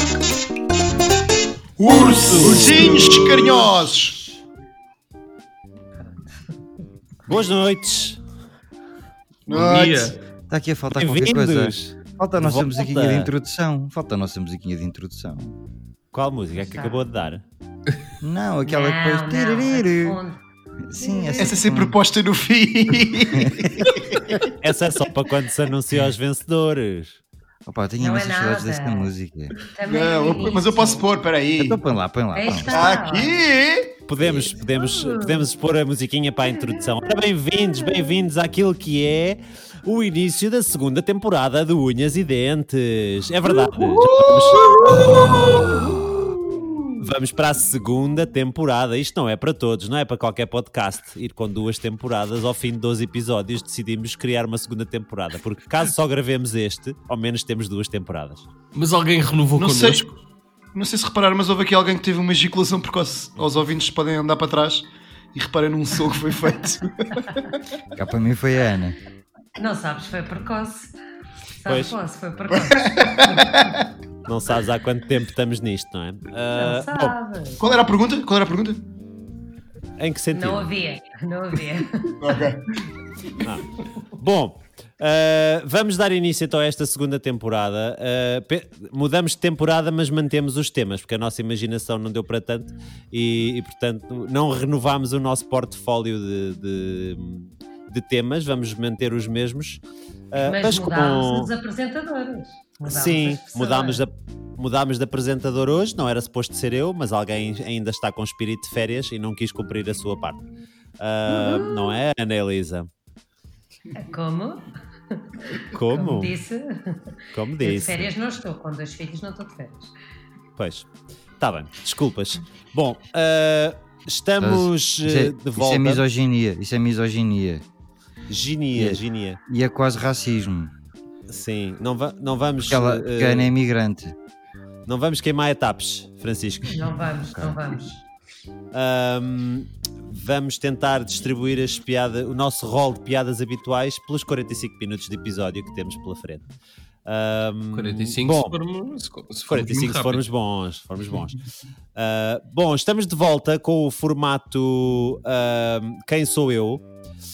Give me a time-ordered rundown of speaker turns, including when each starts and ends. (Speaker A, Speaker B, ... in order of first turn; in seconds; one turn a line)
Speaker A: 1.8-4.2
Speaker B: 1.9-3.6
Speaker C: 2.4-3.7
Speaker D: 6.0-6.4
Speaker B: 7.3-8.2
Speaker A: 9.5-10.2
Speaker C: 9.5-10.2
Speaker E: 10.5-15.6
Speaker B: 11.0-13.3
Speaker B: 16.1-17.4
Speaker D: 16.7-17.1
Speaker E: 18.2-20.2
Speaker D: 18.6-20.4
Speaker E: 20.9-22.0
Speaker D: 21.0-21.6
Speaker A: 21.4-24.5
Speaker E: 23.3-23.9
Speaker B: 24.6-27.2
Speaker E: 27.7-29.5
Speaker D: 28.0-29.1
Speaker D: 29.7-31.1
Speaker A: 29.9-31.8
Speaker E: 31.6-33.0
Speaker D: 32.3-33.4
Speaker A: 32.7-34.0
Speaker B: 34.1-44.8
Speaker D: 34.6-35.5
Speaker A: 43.7-46.9
Speaker B: 47.0-58.5
Speaker C: 58.7-60.2
Speaker A: 59.6-60.1
Speaker A: 60.7-67.5
Speaker E: 68.0-69.0
Speaker D: 69.6-70.9
Speaker D: 71.5-73.6
Speaker B: 71.7-72.0
Speaker A: 72.5-73.8
Speaker B: 74.3-77.2
Speaker D: 76.5-77.6
Speaker A: 77.6-78.8
Speaker B: 80.0-80.7
Speaker D: 80.3-82.2
Speaker A: 82.2-82.8
Speaker B: 83.4-99.8
Speaker B: 100.3-101.5
Speaker D: 100.4-104.0
Speaker B: 102.8-110.4
Speaker B: 111.0-112.9
Speaker D: 111.3-111.7
Speaker D: 113.9-119.9
Speaker B: 115.7-116.4
Speaker B: 117.3-118.1
Speaker B: 120.6-120.9
Speaker B: 121.4-126.0
Speaker E: 124.4-127.6
Speaker B: 128.3-129.4
Speaker E: 128.7-130.7
Speaker B: 131.3-133.5
Speaker E: 132.7-134.2
Speaker B: 134.9-136.9
Speaker D: 136.7-138.0
Speaker E: 137.3-137.7
Speaker B: 138.7-146.4
Speaker B: 147.1-148.6
Speaker C: 147.7-150.3
Speaker B: 149.5-151.4
Speaker B: 152.0-156.8